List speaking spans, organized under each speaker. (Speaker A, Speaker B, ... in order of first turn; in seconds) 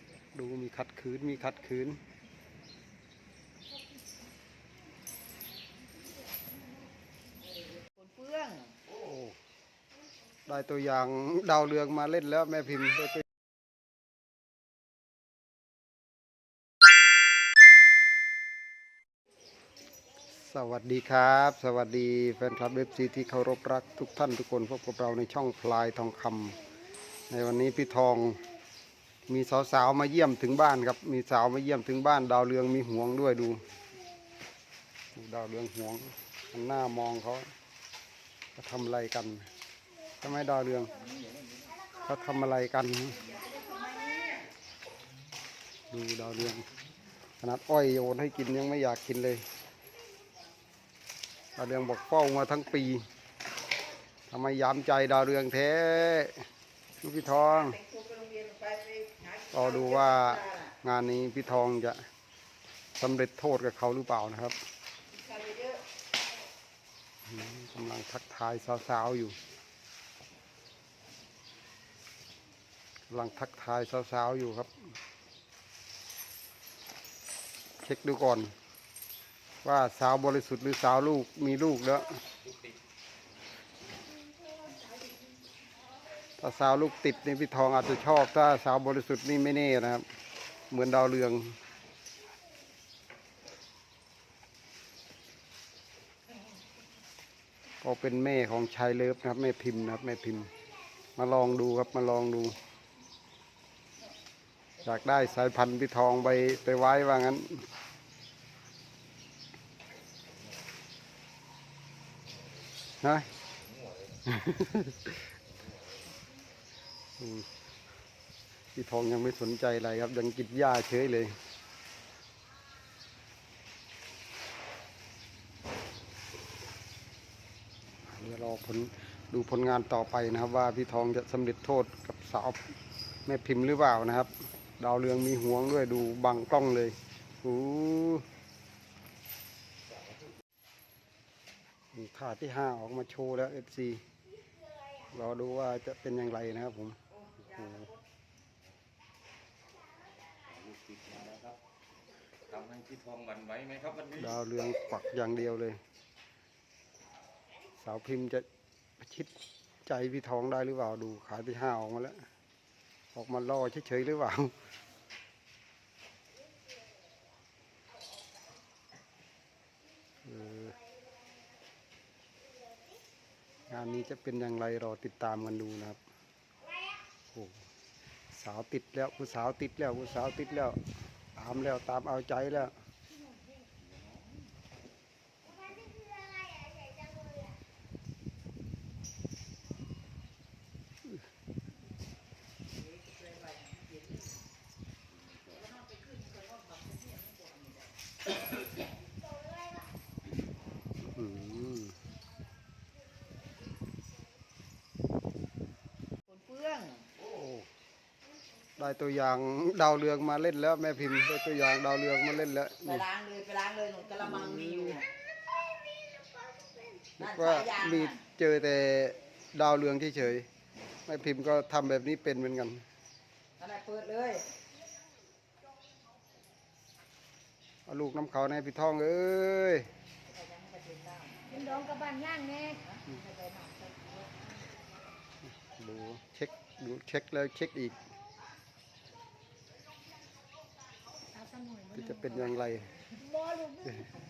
Speaker A: 0.3-2.0, 8.9-9.4, 10.5-13.2, 20.4-26.6, 27.3-28.4, 29.3-33.6, 35.1-37.5, 38.5-39.5, 40.2-41.1, 42.0-43.3, 45.9-46.7, 47.4-49.4, 51.5-53.0, 54.3-56.4, 57.0-57.8, 59.5-62.0, 63.0-64.6, 67.2-69.4, 73.1-74.7, 77.8-78.5, 79.6-82.2, 86.4-90.0, 90.7-91.6, 97.8-100.5, 101.2-102.6, 104.8-107.7, 113.0-113.3, 114.2-115.2, 117.2-117.5, 118.8-121.4, 128.1-132.6, 133.2-138.2, 141.9-144.0, 145.1-147.0, 147.5-147.9, 154.1-155.8, 157.8-158.4, 159.0-159.3, 159.8-162.2, 163.1-164.6, 170.2-170.8, 173.7-176.0, 177.3-177.7, 178.3-180.8, 181.3-182.7, 201.0-202.0, 207.2-207.7, 208.8-213.1, 214.2-215.0, 217.2-220.5, 221.1-222.8, 227.9-229.9, 235.6-238.0, 241.9-242.9
Speaker B: 7.4-8.8, 43.1-44.5, 57.4-60.8, 65.1-65.8, 147.1-148.0, 192.8-194.3, 195.5-197.9, 206.3-207.1, 212.8-215.1, 217.2-218.2, 223.6-224.5, 230.2-234.5
Speaker C: 150.4-151.6, 152.5-154.1
Speaker D: 231.9-232.7, 241.3-242.0, 243.2-243.9